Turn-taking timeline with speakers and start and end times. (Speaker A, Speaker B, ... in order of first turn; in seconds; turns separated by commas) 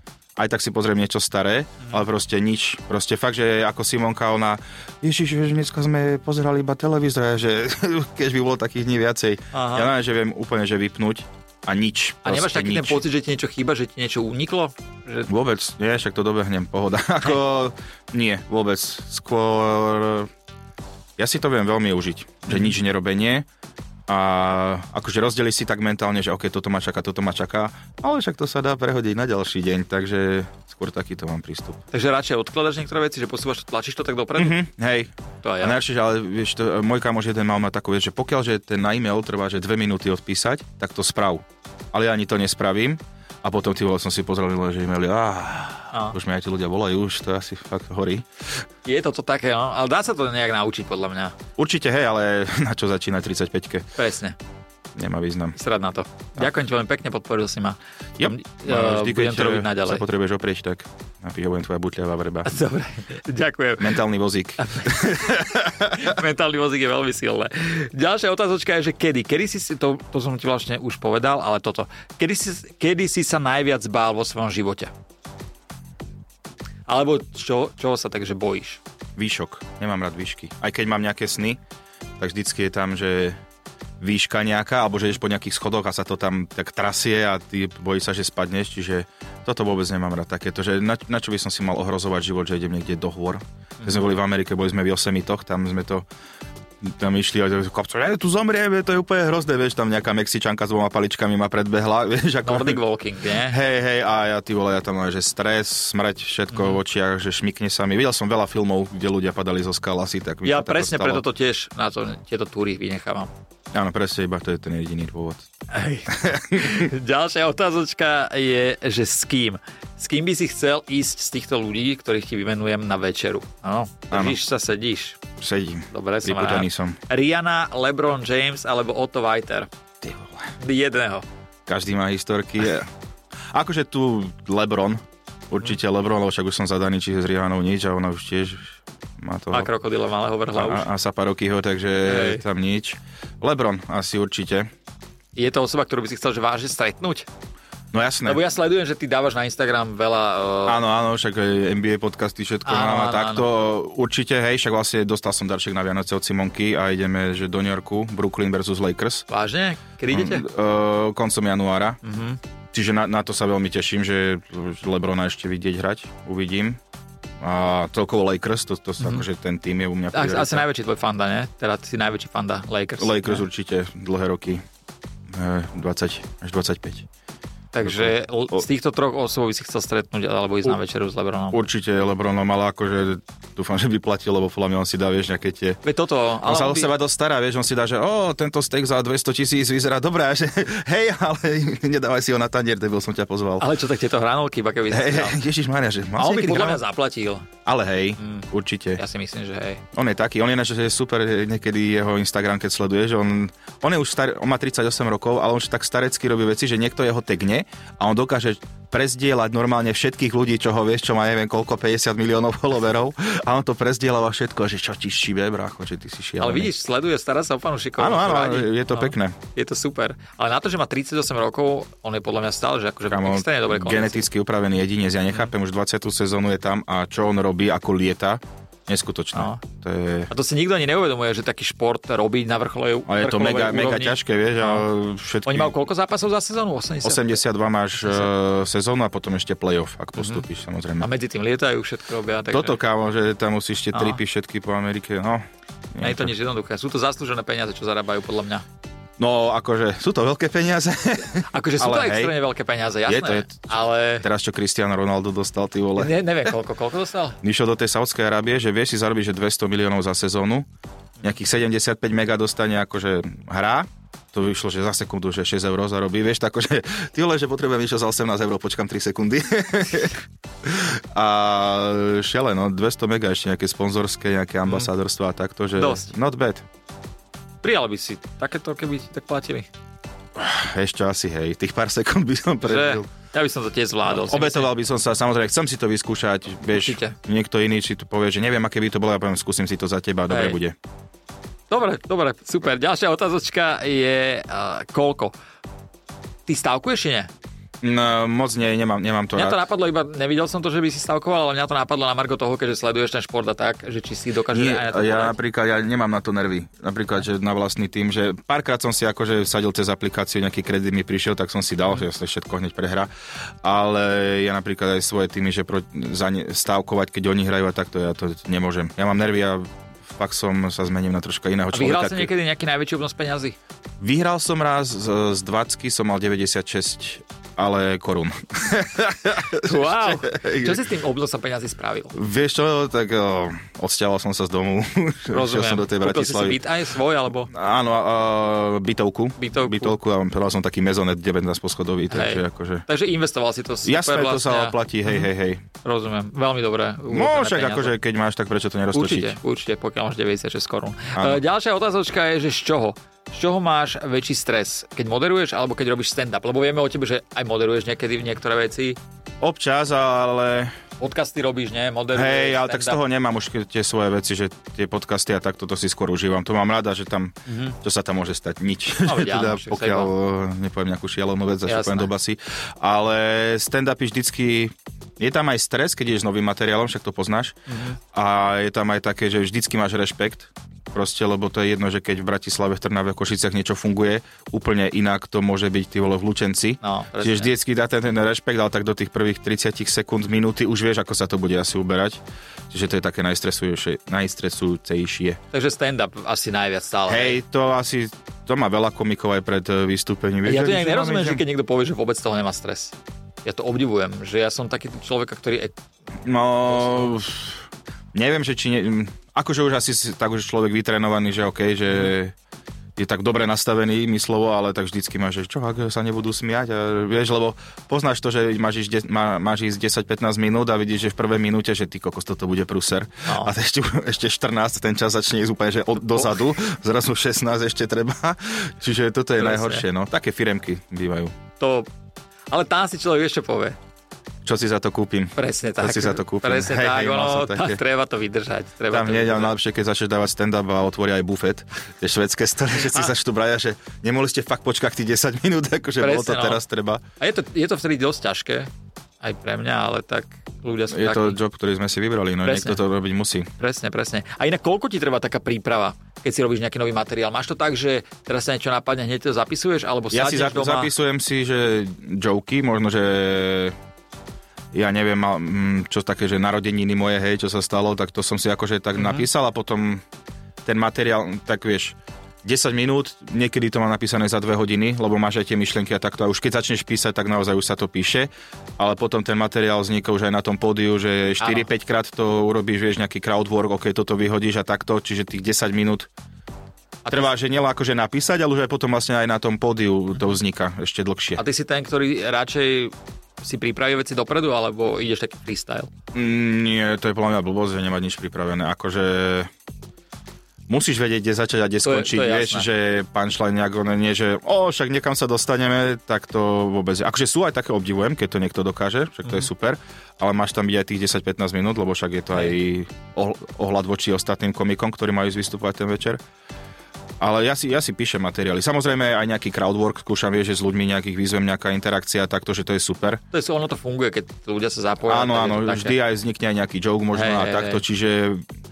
Speaker A: 0.4-13.0, Speaker B: 9.5-9.9, Speaker B: 12.2-15.3, Speaker A: 15.3-20.3, Speaker A: 21.2-23.5, Speaker B: 22.5-22.7, Speaker A: 24.1-31.8, Speaker B: 31.9-34.6, Speaker A: 34.4-48.3, Speaker B: 35.4-35.8, Speaker B: 48.9-51.4, Speaker A: 51.6-53.9, Speaker B: 54.0-54.4, Speaker A: 55.0-55.6, Speaker B: 55.6-60.0, Speaker A: 58.2-62.6, Speaker B: 62.5-64.0, Speaker A: 63.8-66.1, Speaker B: 64.6-74.9, Speaker B: 76.9-78.8, Speaker A: 79.2-81.6, Speaker A: 82.2-83.4, Speaker A: 84.0-96.1, Speaker B: 93.8-94.1, Speaker A: 96.8-102.8, Speaker B: 102.4-103.6, Speaker A: 103.4-111.2, Speaker B: 106.5-106.8, Speaker B: 110.4-113.3, Speaker A: 113.7-115.5, Speaker B: 115.7-125.2, Speaker A: 116.1-116.9, Speaker A: 124.1-124.4, Speaker A: 125.4-127.0, Speaker B: 125.9-129.7, Speaker A: 130.0-130.5, Speaker B: 130.6-131.3, Speaker A: 131.7-132.9, Speaker A: 133.5-139.7, Speaker B: 139.5-140.9, Speaker A: 140.6-144.7, Speaker B: 142.0-142.4, Speaker B: 145.4-147.3, Speaker A: 147.9-148.4, Speaker B: 148.3-150.8, Speaker A: 150.7-159.3, Speaker B: 152.7-153.5, Speaker B: 159.3-160.5, Speaker A: 160.1-162.0, Speaker B: 162.0-162.4, Speaker A: 162.7-166.8, Speaker A: 167.4-170.7, Speaker B: 170.1-173.4, Speaker A: 173.0-174.6, Speaker A: 175.3-177.1, Speaker B: 177.7-181.7, Speaker A: 177.8-178.6, Speaker A: 181.5-185.8, Speaker B: 185.8-186.9, Speaker A: 186.4-193.7, Speaker B: 193.6-195.4, Speaker A: 194.9-196.8, Speaker B: 196.2-197.5, Speaker A: 197.7-199.0, Speaker B: 198.2-199.8, Speaker A: 199.9-216.7, Speaker B: 216.4-224.3, Speaker A: 218.0-219.4, Speaker A: 223.1-230.3, Speaker B: 229.3-229.6, Speaker B: 230.3-234.9, Speaker A: 233.1-235.7, Speaker B: 235.5-237.4, Speaker A: 237.0-241.1, Speaker B: 238.0-238.3, Speaker B: 240.2-240.4, Speaker B: 241.0-242.8, Speaker A: 242.5-246.3, Speaker B: 243.9-244.2, Speaker B: 246.0-248.7, Speaker A: 249.2-252.3, Speaker B: 251.5-254.3, Speaker A: 253.1-256.5, Speaker B: 256.0-257.4, Speaker A: 257.4-260.7, Speaker A: 261.2-276.6, Speaker B: 275.8-276.1, Speaker B: 277.6-279.7, Speaker A: 280.4-283.1, Speaker B: 282.6-284.7, Speaker A: 284.1-290.8, Speaker B: 286.7-287.1, Speaker B: 290.3-290.6, Speaker B: 291.7-295.3, Speaker B: 296.5-297.3, Speaker A: 297.8-299.6, Speaker B: 299.4-305.4, Speaker A: 304.5-313.1, Speaker A: 313.6-322.3, Speaker B: 321.7-323.6, Speaker A: 324.0-330.8, Speaker B: 329.6-332.1, Speaker A: 332.1-336.6, Speaker B: 335.3-337.5, Speaker A: 337.5-342.9, Speaker B: 339.4-340.0, Speaker B: 342.1-345.3, Speaker A: 343.8-345.6, Speaker B: 345.8-347.9, Speaker A: 347.1-349.4, Speaker B: 348.9-359.0, Speaker A: 351.1-351.4, Speaker A: 359.4-360.8, Speaker B: 361.0-363.0, Speaker A: 362.1-377.6, Speaker B: 367.5-367.8, Speaker B: 369.0-370.1, Speaker B: 371.7-372.1, Speaker B: 377.7-378.0, Speaker A: 378.1-395.4, Speaker B: 386.8-387.5, Speaker B: 395.5-397.4, Speaker A: 397.1-401.4, Speaker B: 400.4-405.7, Speaker A: 406.2-412.3, Speaker B: 406.7-407.1, Speaker A: 413.0-431.4, Speaker B: 423.2-423.5, Speaker B: 429.4-429.9, Speaker B: 431.6-431.9, Speaker B: 432.5-433.8, Speaker A: 434.4-437.8, Speaker B: 435.4-439.6, Speaker A: 438.9-447.0, Speaker B: 446.0-446.6, Speaker B: 447.2-448.7, Speaker B: 449.2-451.4, Speaker A: 450.9-453.5, Speaker B: 452.4-452.8, Speaker B: 453.6-460.9, Speaker A: 460.1-463.8, Speaker A: 464.7-470.0, Speaker B: 469.0-469.3, Speaker A: 470.6-486.1, Speaker B: 481.4-481.7, Speaker B: 487.1-487.3, Speaker A: 487.1-491.4, Speaker B: 491.4-495.9, Speaker A: 496.1-499.5, Speaker A: 500.7-516.2, Speaker B: 501.8-502.7, Speaker A: 517.2-523.2, Speaker B: 523.3-526.0, Speaker A: 525.1-528.5, Speaker B: 527.1-527.8